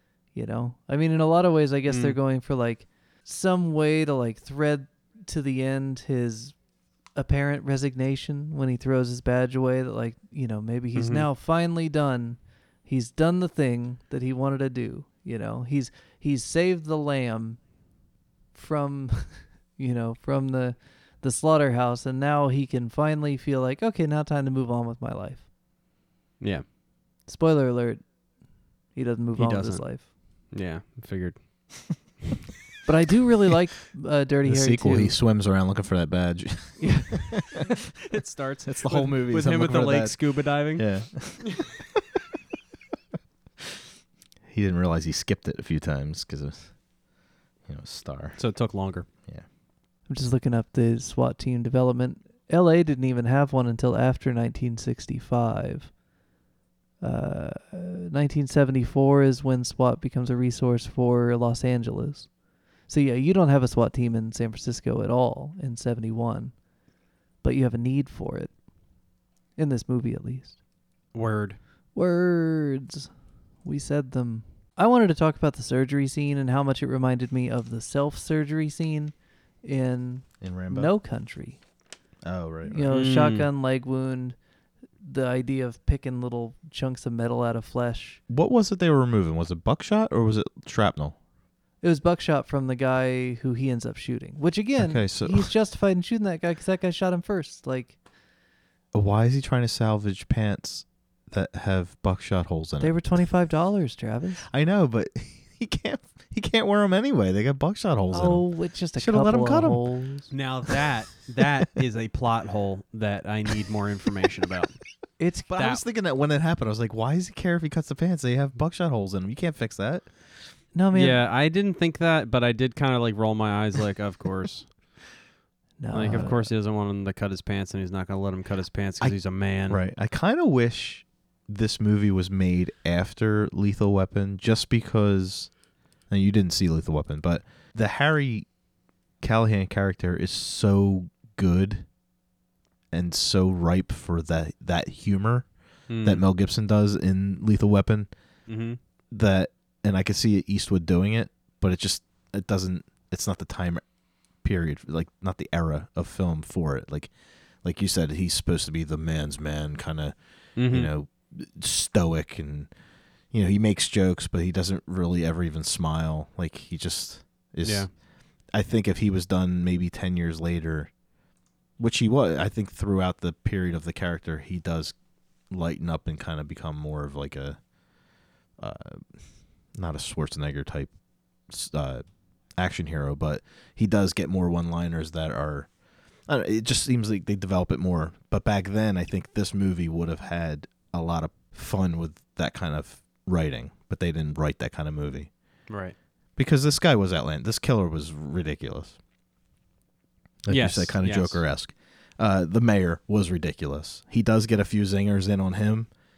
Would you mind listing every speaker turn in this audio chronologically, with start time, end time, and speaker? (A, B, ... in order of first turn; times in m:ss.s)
0:00.4-0:06.6 A
0:01.9-0:02.2 B
0:07.1-0:17.6 A
0:11.0-0:11.3 B
0:18.5-0:25.4 A
0:26.4-0:26.6 B
0:27.3-0:28.0 A
0:28.9-0:30.1 A
0:29.4-0:32.0 B
0:32.8-0:35.1 A
0:34.4-0:37.4 C
0:36.8-0:37.1 A
0:38.1-0:41.3 B
0:38.7-0:41.7 C
0:44.5-0:46.8 C
0:47.7-0:48.4 C
0:48.4-0:49.1 B
0:50.1-0:55.9 A
0:57.0-1:02.3 A
1:02.9-1:06.5 A
1:07.4-1:08.5 A
1:09.6-1:10.6 A
1:11.1-1:11.6 B
1:12.0-1:13.1 A
1:13.6-1:21.6 A
1:20.4-1:20.9 C
1:22.2-1:22.9 C
1:22.7-1:24.4 A
1:22.9-1:23.5 B
1:25.0-1:28.2 A
1:28.3-1:31.2 C
1:31.8-1:38.0 A
1:34.8-1:35.5 C
1:38.9-1:42.9 C
1:42.8-1:44.4 A
1:44.5-1:48.4 C
1:48.1-1:50.3 A
1:49.0-1:50.0 C
1:50.3-1:54.8 B
1:55.2-1:55.6 A
1:55.5-2:00.1 C
2:00.8-2:01.2 A
2:00.9-2:04.8 B
2:05.8-2:06.5 A
2:05.9-2:09.8 B
2:06.0-2:06.3 C
2:09.7-2:15.5 C
2:16.1-2:18.5 C
2:19.2-2:21.9 C
2:22.9-2:25.5 C
2:25.9-2:26.2 B
2:26.0-2:28.1 C
2:28.5-2:28.8 B
2:29.1-2:33.8 C
2:34.4-2:37.1 C
2:37.6-2:42.7 C
2:40.6-2:40.9 B
2:43.3-2:50.9 C
2:47.6-2:47.9 B
2:51.8-2:55.0 C
2:55.5-2:57.6 C
2:58.6-2:59.1 C
2:59.7-3:00.9 C
3:01.5-3:02.0 C
3:02.6-3:05.7 C
3:06.3-3:15.3 C
3:15.7-3:16.0 B
3:16.4-3:19.0 C
3:20.4-3:25.9 C
3:20.5-3:21.4 B